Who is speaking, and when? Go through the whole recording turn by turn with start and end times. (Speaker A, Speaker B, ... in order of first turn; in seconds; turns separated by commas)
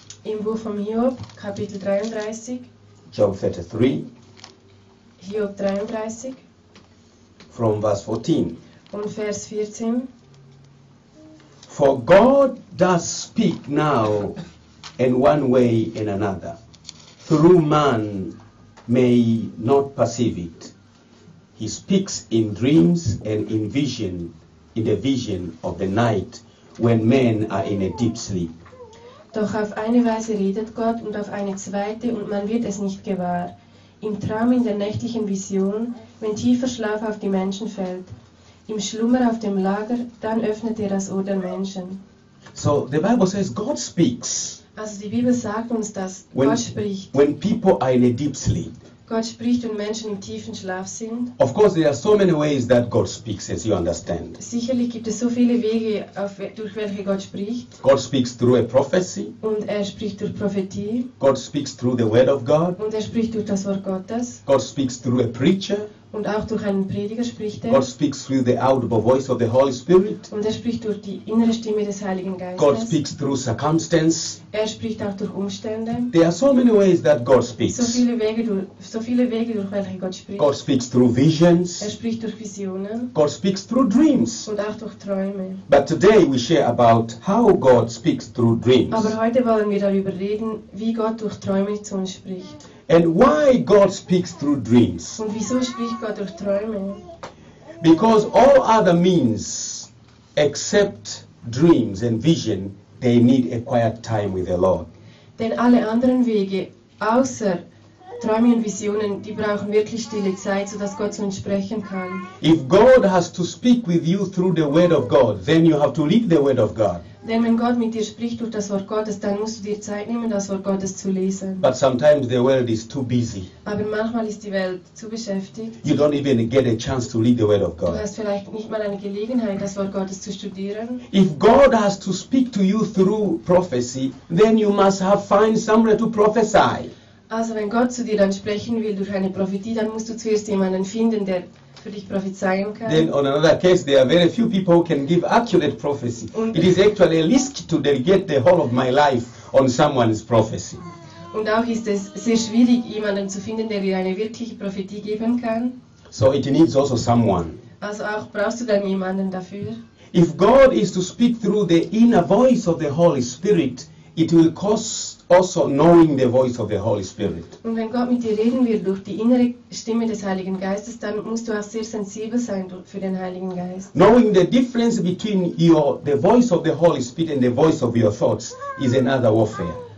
Speaker A: 0.2-2.7, Speaker B: 3.1-4.1, Speaker A: 5.2-6.4, Speaker B: 7.5-8.6, Speaker A: 8.9-10.1, Speaker B: 11.7-14.4, Speaker B: 15.0-16.6, Speaker B: 17.2-18.4, Speaker B: 18.9-20.7, Speaker B: 21.6-28.5, Speaker A: 29.3-38.1, Speaker A: 38.7-42.0, Speaker B: 42.5-44.6, Speaker A: 44.8-47.1, Speaker B: 46.3-46.6, Speaker B: 47.1-48.7, Speaker A: 49.1-51.3, Speaker B: 51.4-54.4, Speaker A: 54.4-57.8, Speaker B: 57.8-59.3, Speaker A: 59.4-61.1, Speaker B: 61.2-62.8, Speaker A: 62.8-64.4, Speaker B: 64.5-65.9, Speaker A: 66.1-67.8, Speaker B: 67.7-70.3, Speaker A: 70.3-73.0, Speaker B: 72.6-74.4, Speaker A: 74.5-76.1, Speaker B: 76.1-78.0, Speaker A: 77.7-80.5, Speaker B: 80.4-81.9, Speaker A: 81.8-83.1, Speaker B: 83.1-84.5, Speaker A: 84.5-85.6, Speaker B: 85.7-89.2, Speaker A: 88.9-92.6, Speaker B: 92.9-95.2, Speaker A: 95.2-97.0, Speaker B: 97.8-104.9, Speaker A: 105.4-107.6, Speaker A: 108.2-112.3, Speaker B: 112.4-117.0, Speaker A: 117.2-121.7, Speaker B: 121.6-123.5, Speaker A: 123.7-125.8, Speaker B: 125.8-128.0, Speaker A: 127.9-131.0, Speaker B: 131.1-136.9, Speaker A: 137.3-143.1, Speaker B: 142.8-150.8, Speaker A: 146.3-146.7, Speaker A: 151.3-155.8, Speaker B: 156.1-157.6, Speaker A: 157.8-159.8, Speaker B: 160.1-167.5, Speaker A: 167.6-173.9, Speaker B: 173.9-179.8